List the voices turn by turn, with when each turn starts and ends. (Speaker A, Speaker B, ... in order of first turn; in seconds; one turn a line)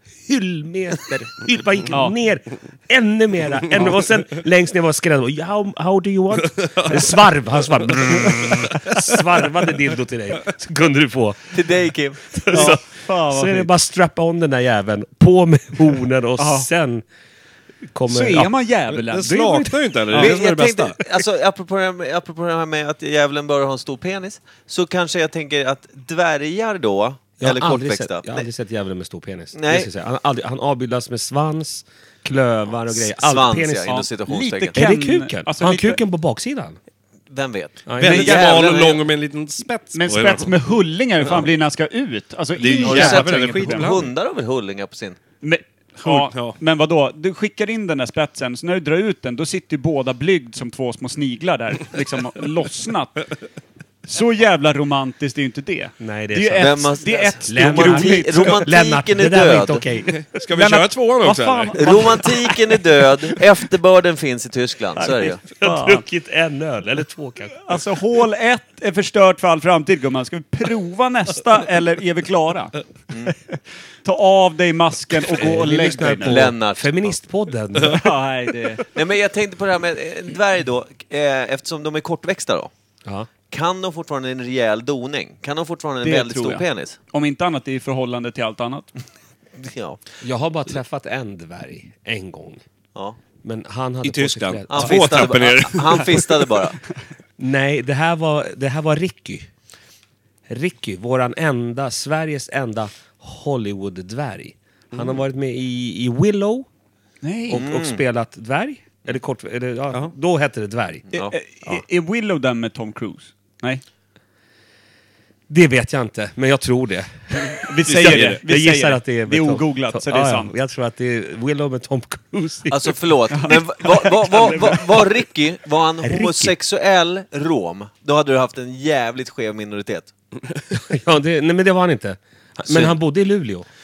Speaker A: 0.2-11.6
Speaker B: 11.5-12.5
Speaker A: 12.3-17.0
Speaker C: 12.6-13.7
Speaker C: 16.4-16.7
Speaker A: 17.9-18.5
Speaker C: 18.1-20.3
Speaker D: 18.9-20.9
Speaker B: 20.1-28.4
Speaker A: 27.4-34.0
Speaker B: 29.5-29.9
Speaker B: 32.9-34.8
Speaker C: 33.9-36.0
Speaker A: 34.7-36.8
Speaker B: 37.3-39.0
Speaker A: 37.9-38.5
Speaker D: 38.0-40.5
Speaker C: 38.4-38.8
Speaker C: 39.9-43.9
Speaker D: 42.6-44.1
Speaker B: 42.8-45.2
Speaker C: 45.4-53.2
Speaker D: 46.0-46.6
Speaker C: 54.0-58.6
Speaker A: 56.0-56.9
Speaker B: 56.6-59.8
Speaker A: 57.5-60.2
Speaker D: 60.1-62.0
Speaker C: 60.5-62.5
Speaker B: 61.8-65.4
Speaker C: 65.0-66.0
Speaker A: 65.6-67.8
Speaker C: 67.6-72.7
Speaker C: 73.5-76.4
Speaker A: 75.3-78.0
Speaker B: 76.2-77.1
Speaker C: 77.8-78.8
Speaker B: 78.9-82.7
Speaker B: 83.5-87.0
Speaker C: 86.0-88.9
Speaker B: 89.6-90.0
Speaker A: 90.2-92.6
Speaker A: 93.4-95.4
Speaker D: 94.0-96.4
Speaker B: 94.7-96.8
Speaker A: 97.4-99.5
Speaker A: 100.5-106.7
Speaker D: 104.9-105.2
Speaker C: 107.2-107.6
Speaker A: 107.5-111.0
Speaker B: 107.5-108.0
Speaker B: 111.1-111.3
Speaker C: 111.2-113.8
Speaker A: 115.5-123.0
Speaker C: 117.6-120.5
Speaker D: 117.9-118.4
Speaker B: 122.7-130.1
Speaker C: 123.3-124.7
Speaker A: 124.2-124.9
Speaker A: 126.0-126.5
Speaker A: 130.7-133.7
Speaker B: 132.7-132.9